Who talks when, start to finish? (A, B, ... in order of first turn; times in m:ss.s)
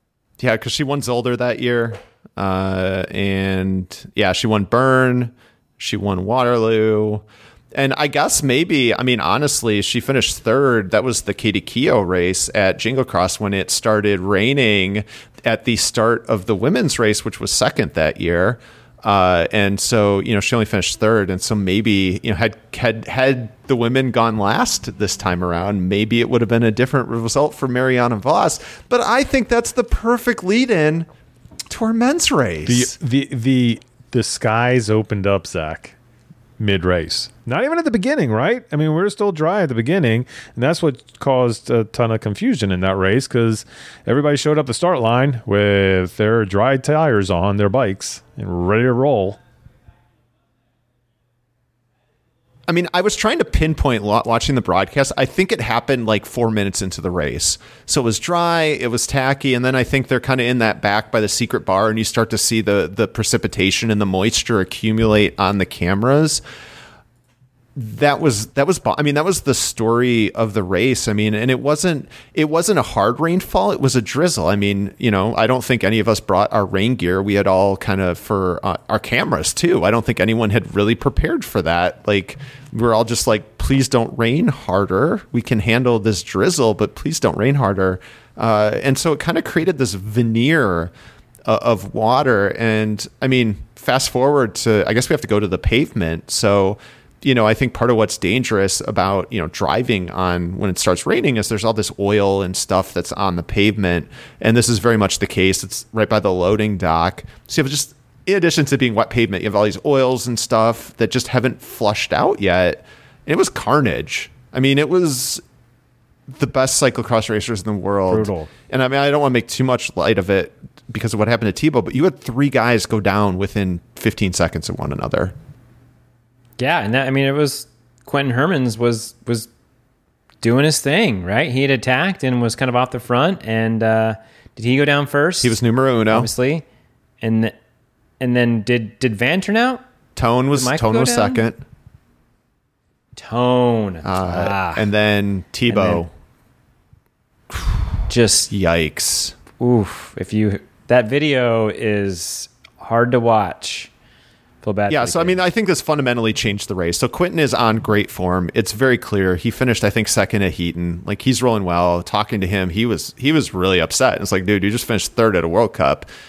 0:00.4-0:31.1 A
0:31.7-0:33.0 A
0:32.7-0:36.0 B
0:36.6-0:49.4 B
0:52.7-1:06.4 A
1:07.8-1:30.9 A
1:31.5-1:55.4 A
1:56.3-2:05.4 A
1:58.1-1:58.5 C
2:06.6-2:09.5 C
2:10.4-2:15.6 C
2:15.4-2:16.3 A
2:16.1-2:16.6 C
2:17.2-2:17.6 C
2:18.2-2:19.8 C
2:20.2-2:21.6 A
2:20.5-2:21.4 C
2:23.2-2:24.9 C
2:24.0-2:26.1 A
2:25.7-2:26.0 C
2:28.1-2:28.5 C
2:28.5-2:29.4 A
2:29.6-2:33.9 C
2:34.6-2:35.4 C
2:34.9-2:46.1 A